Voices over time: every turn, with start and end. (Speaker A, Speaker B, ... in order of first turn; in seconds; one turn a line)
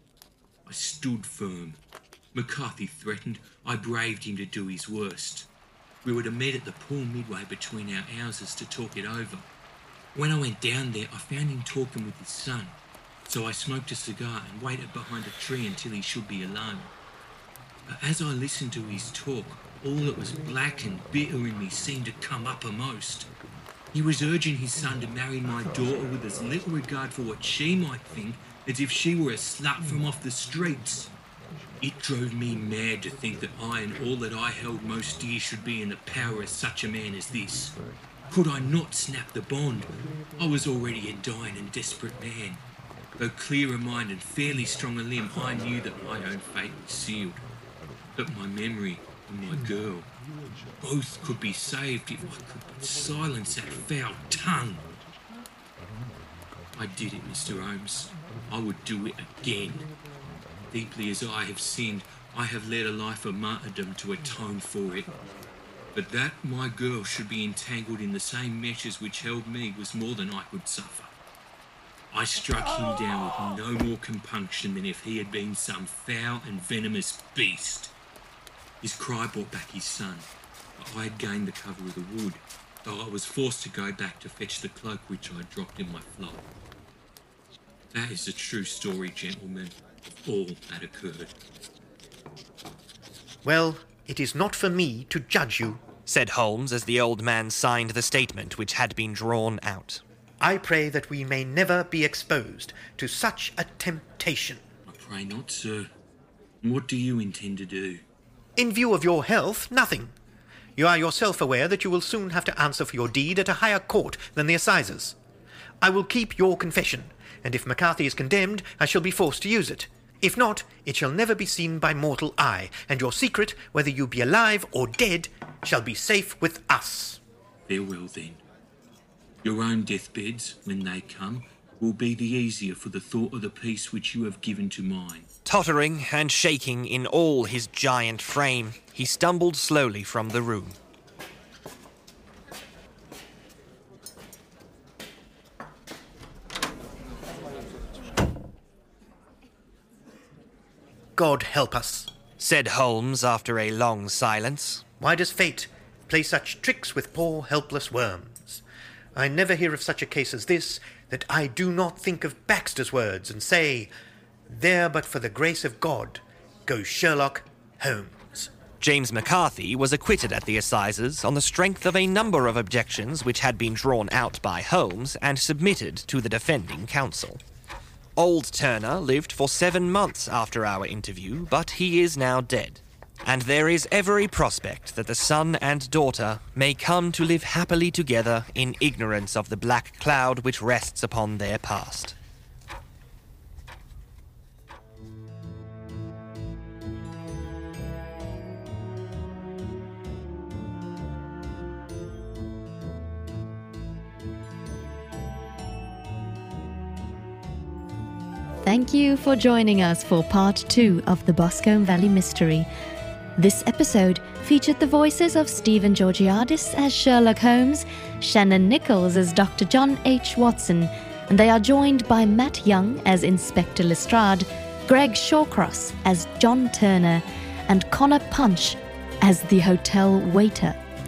Speaker A: 0.7-1.8
Speaker A: 2.3-5.5
Speaker A: 6.0-9.5
Speaker A: 10.1-12.7
Speaker A: 13.2-16.9
Speaker A: 17.9-23.3
Speaker A: 23.9-31.1
Speaker A: 31.8-37.7
Speaker A: 38.3-42.6
Speaker A: 43.2-47.5
Speaker A: 48.1-50.1
Speaker A: 50.8-54.9
Speaker A: 56.7-59.9
Speaker A: 60.7-65.1
Speaker A: 65.9-71.1
Speaker A: 72.1-77.9
Speaker A: 78.8-86.5
Speaker A: 87.9-91.3
Speaker B: 93.4-95.8
Speaker C: 96.1-100.0
Speaker B: 100.4-104.6
Speaker A: 104.9-105.9
Speaker A: 106.6-108.0
Speaker B: 108.5-110.1
Speaker B: 110.8-115.2
Speaker B: 115.8-127.2
Speaker A: 127.7-128.4
Speaker A: 129.4-135.3
Speaker C: 135.4-140.8
Speaker B: 151.2-152.1
Speaker C: 152.4-154.8
Speaker B: 155.0-158.6
Speaker B: 159.1-163.9
Speaker B: 164.5-168.5
Speaker C: 168.8-177.4
Speaker C: 178.2-192.2
Speaker D: 208.6-212.7
Speaker D: 213.4-230.8